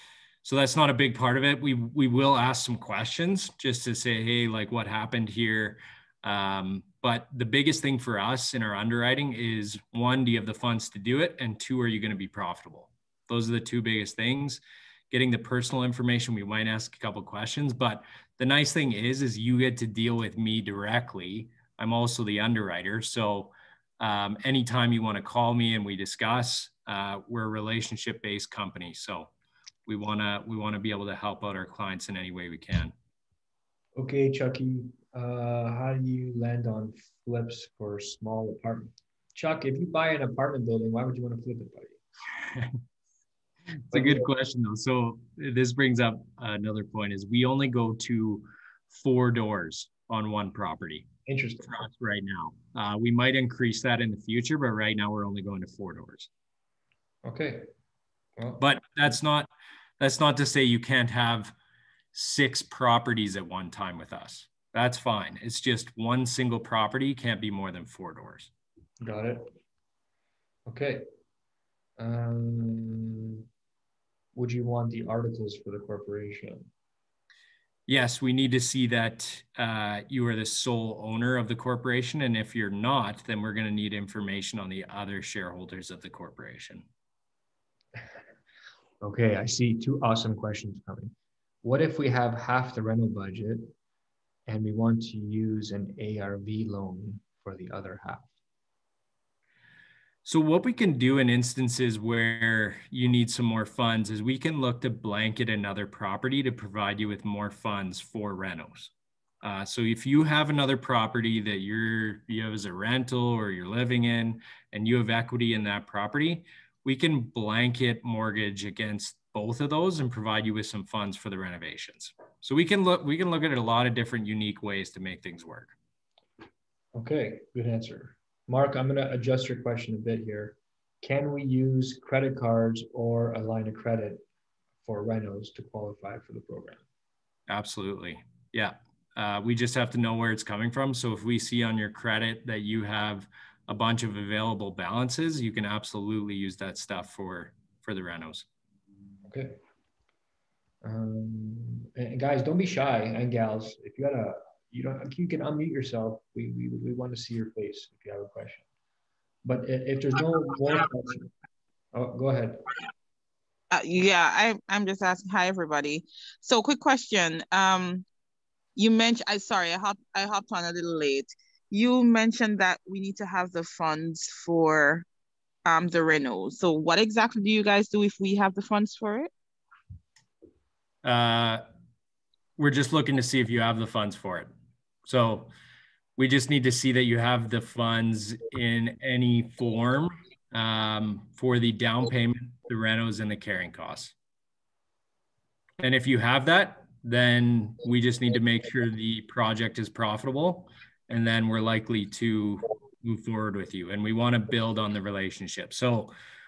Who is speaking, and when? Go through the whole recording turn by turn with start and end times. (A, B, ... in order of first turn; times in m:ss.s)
0:00.4-0:29.3 A
0:29.9-0:32.9 A
0:34.0-0:42.0 B
0:42.5-0:42.8 A
0:43.8-0:51.1 A
0:43.9-0:44.3 B
0:51.2-0:51.9 B
0:51.6-0:56.3 A
0:57.2-0:57.7 B
0:58.4-0:58.6 B
0:58.6-0:59.5 A
1:00.0-1:01.5 A
1:02.1-1:08.5 A
1:09.0-1:09.5 B
1:10.7-1:11.0 B
1:12.0-1:13.4 B
1:14.3-1:16.7 B
1:17.9-1:26.9 A
1:29.0-1:33.7 B
1:34.5-1:38.3 B
1:40.2-1:48.9 A
1:49.4-2:05.7 A
2:06.9-2:14.2 B
2:14.8-2:16.8 B
2:17.5-2:28.4 A
2:29.2-2:29.6 B
2:30.8-2:38.6 B
2:39.4-2:41.3 B
2:41.9-2:42.6 B
2:43.7-2:48.0 C
2:48.8-2:55.0 C
2:55.6-2:59.3 C
3:01.0-3:01.6 A
3:02.6-3:04.5 A
3:05.0-3:05.5 A
3:06.2-3:14.1 A
3:15.8-3:26.1 A